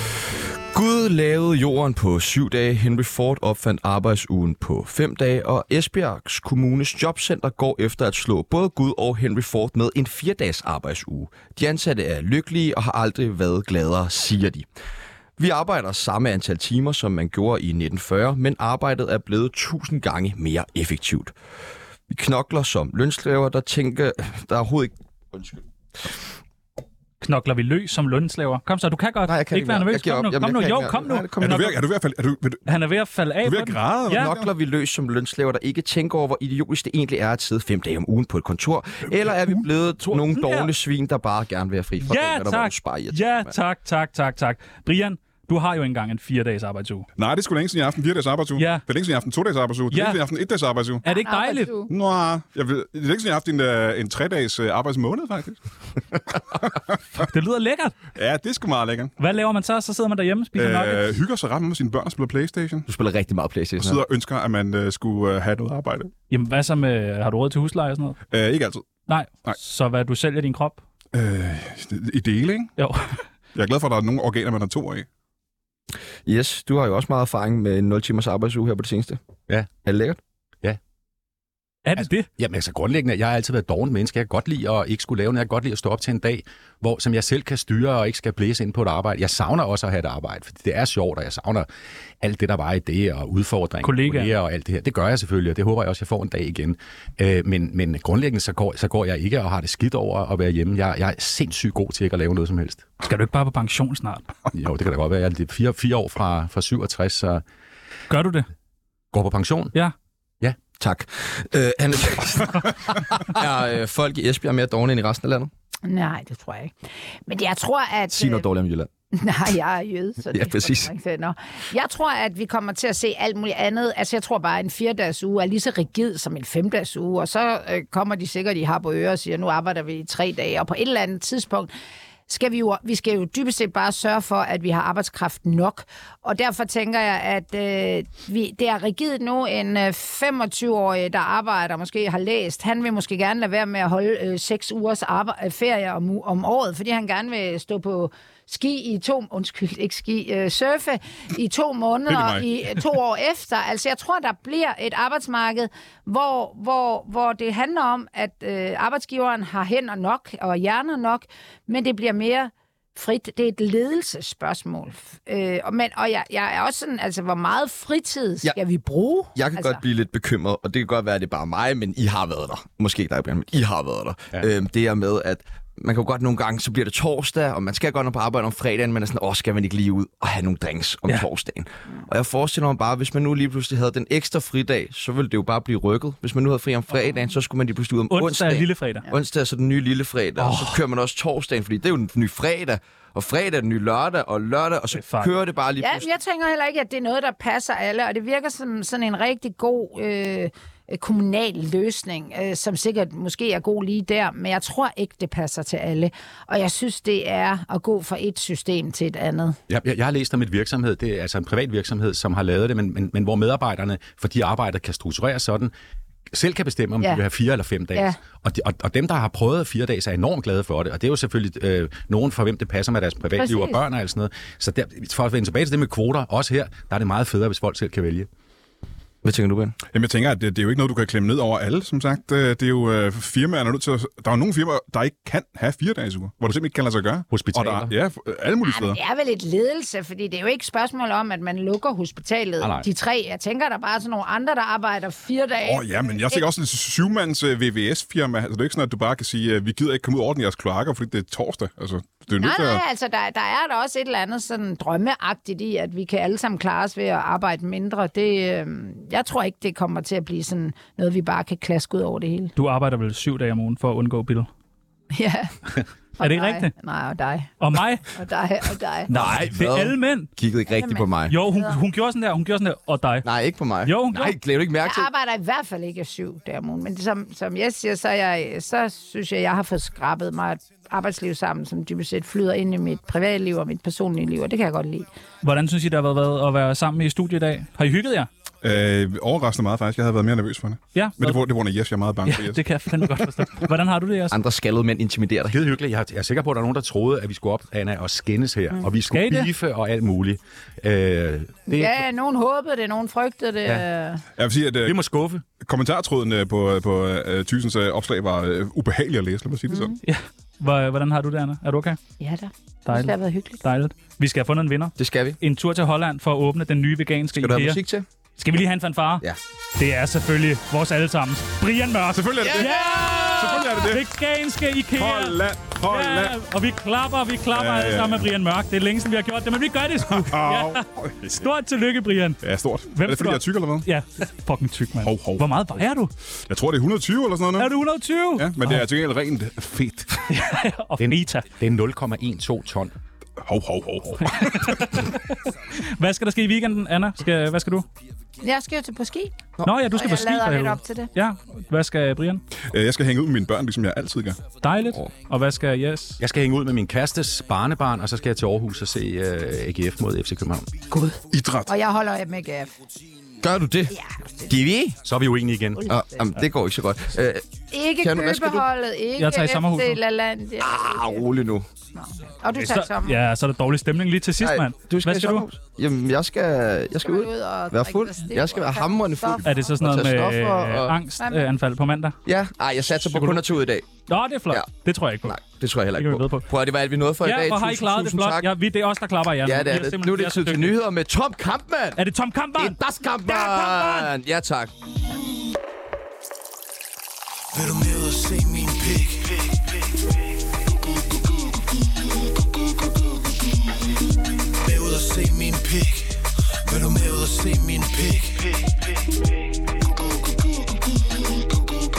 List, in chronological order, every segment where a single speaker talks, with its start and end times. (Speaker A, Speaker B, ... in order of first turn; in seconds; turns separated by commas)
Speaker A: 0.7-14.7, Speaker A: 15.4-21.3, Speaker A: 22.1-26.1, Speaker B: 27.2-31.6, Speaker A: 29.3-31.8, Speaker C: 31.4-32.7, Speaker B: 32.7-34.3, Speaker C: 33.4-34.5, Speaker A: 34.1-43.5, Speaker B: 40.1-40.7, Speaker B: 42.0-47.1, Speaker C: 47.2-51.0, Speaker B: 48.6-48.9, Speaker B: 49.9-50.2, Speaker B: 51.0-51.8, Speaker D: 51.1-51.9, Speaker C: 51.9-55.6, Speaker C: 56.3-57.2, Speaker B: 57.2-58.0, Speaker C: 58.1-59.1, Speaker B: 59.2-61.1, Speaker C: 60.5-62.9, Speaker A: 62.9-64.0, Speaker C: 63.8-66.1, Speaker B: 66.3-68.2, Speaker C: 68.3-68.9, Speaker B: 69.1-70.8, Speaker C: 71.1-72.7, Speaker B: 72.8-73.2, Speaker C: 73.5-75.1, Speaker A: 76.3-79.2, Speaker A: 79.8-80.2, Speaker B: 81.8-82.3, Speaker E: 82.0-91.7, Speaker E: 92.2-102.9, Speaker B: 93.8-94.3, Speaker B: 103.0-104.3, Speaker E: 104.5-107.4, Speaker B: 108.1-108.5, Speaker E: 109.1-109.7, Speaker A: 110.8-115.5, Speaker D: 115.8-116.7, Speaker D: 117.3-118.5, Speaker A: 118.1-118.9, Speaker D: 119.1-131.7, Speaker A: 120.3-120.9, Speaker D: 132.3-169.8, Speaker C: 152.1-152.4, Speaker A: 169.3-196.1, Speaker B: 188.1-189.1, Speaker B: 190.4-190.8, Speaker B: 194.9-195.3, Speaker D: 195.8-209.6, Speaker E: 209.7-215.7, Speaker E: 216.3-228.3, Speaker D: 223.4-223.8, Speaker A: 229.2-229.8, Speaker C: 229.9-239.0, Speaker E: 237.3-237.9, Speaker D: 238.6-246.4, Speaker E: 242.6-242.9, Speaker C: 245.6-252.8, Speaker D: 252.4-262.5, Speaker B: 262.6-264.5, Speaker D: 265.1-265.5, Speaker D: 266.2-267.5, Speaker B: 266.2-266.7, Speaker B: 267.6-268.1, Speaker D: 268.1-269.2, Speaker B: 269.1-270.3, Speaker A: 269.1-271.4, Speaker D: 270.7-271.8, Speaker B: 271.3-273.3, Speaker A: 273.2-275.1, Speaker B: 273.8-274.4, Speaker D: 274.8-285.1, Speaker B: 285.4-288.3, Speaker C: 288.6-292.6, Speaker B: 290.9-291.4, Speaker B: 292.3-294.4, Speaker A: 294.3-295.6, Speaker E: 295.5-302.0, Speaker B: 299.1-299.5, Speaker D: 301.7-304.2, Speaker C: 304.4-305.0, Speaker E: 304.9-305.4, Speaker C: 305.6-310.0, Speaker D: 309.7-309.9, Speaker B: 310.0-312.0, Speaker D: 312.2-313.6, Speaker B: 312.9-317.8, Speaker A: 315.0-315.4, Speaker A: 317.4-318.1, Speaker B: 318.4-319.2, Speaker B: 319.8-332.4, Speaker C: 322.1-324.1, Speaker C: 324.9-326.4, Speaker C: 327.5-328.3, Speaker C: 330.1-331.3, Speaker C: 332.4-333.9, Speaker B: 332.9-336.1, Speaker C: 335.0-335.5, Speaker C: 336.5-337.7, Speaker B: 337.6-338.8, Speaker C: 338.4-340.3, Speaker B: 340.3-341.5, Speaker E: 341.0-342.9, Speaker C: 343.4-345.1, Speaker B: 344.2-347.9, Speaker D: 348.4-349.4, Speaker B: 349.6-352.4, Speaker D: 349.9-351.1, Speaker C: 352.6-354.4, Speaker B: 354.6-356.2, Speaker E: 356.2-360.7, Speaker D: 360.9-362.8, Speaker C: 361.3-361.7, Speaker A: 363.4-365.0, Speaker D: 363.9-364.5, Speaker E: 365.0-365.9, Speaker A: 365.9-367.4, Speaker D: 365.9-366.2, Speaker D: 367.7-371.2, Speaker A: 368.0-368.7, Speaker B: 369.2-370.0, Speaker A: 370.6-371.7, Speaker D: 371.9-373.2, Speaker B: 372.6-375.4, Speaker A: 374.4-381.0, Speaker D: 377.0-379.7, Speaker B: 379.4-382.2, Speaker D: 381.2-381.5, Speaker A: 382.2-383.9, Speaker B: 382.9-383.4, Speaker B: 384.1-385.4, Speaker A: 385.2-388.5, Speaker B: 385.9-386.5, Speaker B: 387.2-390.7, Speaker A: 389.4-392.0, Speaker B: 392.0-394.1, Speaker A: 392.6-394.7, Speaker F: 397.5-399.7, Speaker F: 404.6-408.8